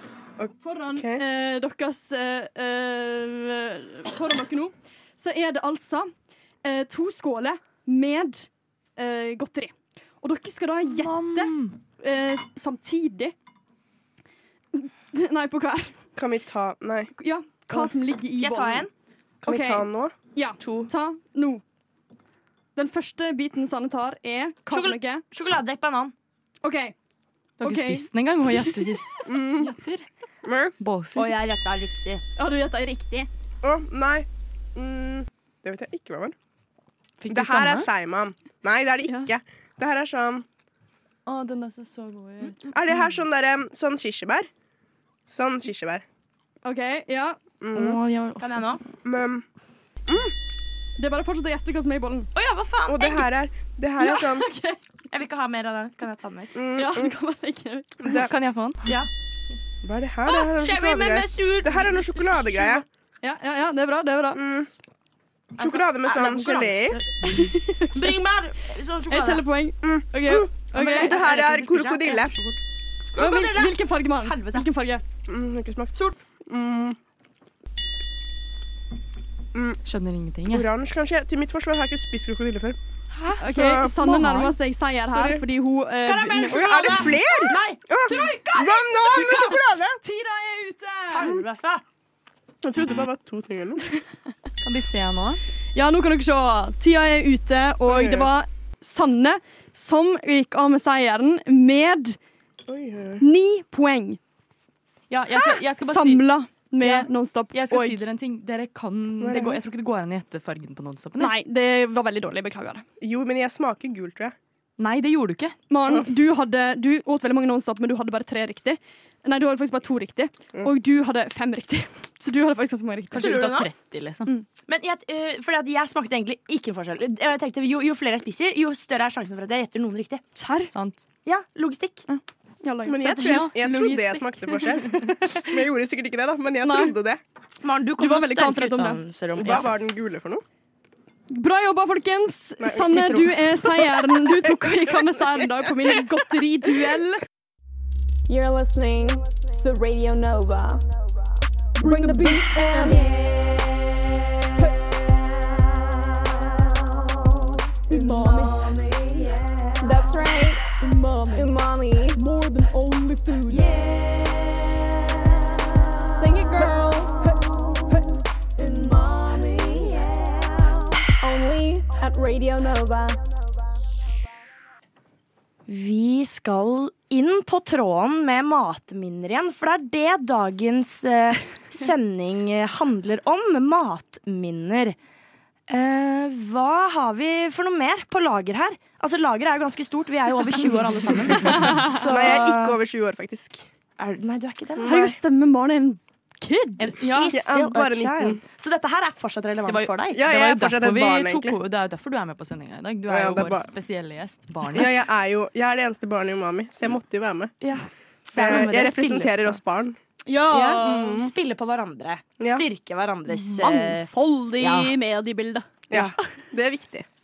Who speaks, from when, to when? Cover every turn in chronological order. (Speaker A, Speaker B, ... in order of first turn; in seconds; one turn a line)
Speaker A: 0.4-1.2
Speaker B: 0.6-6.1
Speaker B: 6.6-13.3
Speaker C: 10.9-11.8
Speaker B: 14.7-15.9
Speaker A: 16.2-17.1
Speaker B: 17.2-18.9
Speaker D: 17.7-18.9
Speaker A: 19.4-20.9
Speaker B: 19.5-21.6
Speaker B: 22.8-25.2
Speaker D: 24.7-26.1
Speaker B: 26.6-26.9
Speaker C: 27.6-30.1
Speaker B: 27.6-28.9
Speaker A: 29.2-29.8
Speaker A: 30.4-30.8
Speaker C: 30.8-31.3
Speaker D: 31.1-32.2
Speaker B: 32.4-33.3
Speaker A: 33.6-36.4
Speaker C: 37.2-37.9
Speaker A: 37.3-40.5
Speaker C: 41.3-42.7
Speaker A: 42.6-44.5
Speaker A: 45.3-46.0
Speaker B: 46.6-47.4
Speaker A: 47.6-48.0
Speaker C: 47.7-48.8
Speaker D: 48.4-48.8
Speaker A: 49.0-49.5
Speaker A: 50.1-50.3
Speaker B: 51.0-52.3
Speaker D: 52.4-53.3
Speaker A: 52.9-54.5
Speaker B: 54.0-54.8
Speaker D: 55.1-56.6
Speaker A: 56.5-57.1
Speaker B: 56.8-58.2
Speaker A: 58.0-58.3
Speaker C: 58.1-59.0
Speaker D: 58.9-59.1
Speaker A: 59.8-62.9
Speaker D: 60.2-62.9
Speaker B: 63.2-64.4
Speaker A: 64.3-64.7
Speaker A: 65.6-67.0
Speaker D: 65.6-69.5
Speaker B: 67.2-68.2
Speaker B: 69.1-71.2
Speaker A: 69.8-72.4
Speaker D: 70.3-72.6
Speaker D: 73.1-74.7
Speaker B: 73.2-75.0
Speaker A: 75.3-76.0
Speaker A: 76.5-77.0
Speaker A: 79.5-79.8
Speaker C: 79.8-80.7
Speaker A: 80.5-82.8
Speaker C: 83.1-83.5
Speaker B: 83.4-87.2
Speaker A: 83.5-84.4
Speaker C: 84.0-84.5
Speaker A: 85.1-85.4
Speaker D: 86.0-89.5
Speaker A: 86.6-90.0
Speaker B: 88.1-88.3
Speaker B: 89.0-91.4
Speaker D: 91.1-91.8
Speaker A: 92.6-93.9
Speaker C: 94.6-95.4
Speaker B: 95.7-102.2
Speaker A: 97.9-98.3
Speaker A: 102.7-103.2
Speaker B: 103.2-104.2
Speaker C: 105.1-106.2
Speaker B: 105.8-108.0
Speaker C: 106.8-111.3
Speaker A: 109.2-109.6
Speaker B: 111.2-112.8
Speaker A: 113.0-114.3
Speaker C: 114.8-115.6
Speaker B: 115.7-123.5
Speaker C: 123.1-124.3
Speaker D: 123.1-123.7
Speaker D: 124.7-130.2
Speaker B: 130.4-130.7
Speaker C: 130.7-131.1
Speaker D: 131.2-132.1
Speaker B: 132.1-133.4
Speaker A: 132.8-137.2
Speaker D: 133.1-133.5
Speaker C: 133.1-134.2
Speaker B: 136.6-137.0
Speaker D: 137.6-139.7
Speaker B: 138.0-139.0
Speaker A: 139.4-140.4
Speaker B: 141.3-147.2
Speaker A: 142.7-143.3
Speaker D: 142.7-143.3
Speaker E: 148.3-150.8
Speaker B: 151.8-153.5
Speaker E: 151.8-153.7
Speaker E: 154.6-155.0
Speaker E: 157.9-163.8
Speaker B: 157.9-158.8
Speaker B: 161.1-161.4
Speaker B: 163.5-164.1
Speaker E: 166.2-168.0
Speaker B: 166.3-166.9
Speaker E: 168.6-173.2
Speaker D: 175.7-185.0
Speaker D: 185.7-192.8
Speaker B: 191.5-192.1
Speaker A: 191.9-193.7
Speaker D: 194.0-195.2
Speaker A: 194.8-195.1
Speaker B: 194.8-196.9
Speaker C: 196.8-197.4
Speaker D: 197.0-200.2
Speaker A: 197.3-198.4
Speaker C: 199.7-204.9
Speaker A: 200.1-201.6
Speaker A: 203.1-203.7
Speaker A: 204.7-207.5
Speaker D: 207.6-209.6
Speaker A: 208.3-210.0
Speaker B: 210.3-211.2
Speaker D: 210.5-215.0
Speaker A: 210.9-211.3
Speaker B: 213.4-215.8
Speaker A: 215.9-217.1
Speaker D: 215.9-216.2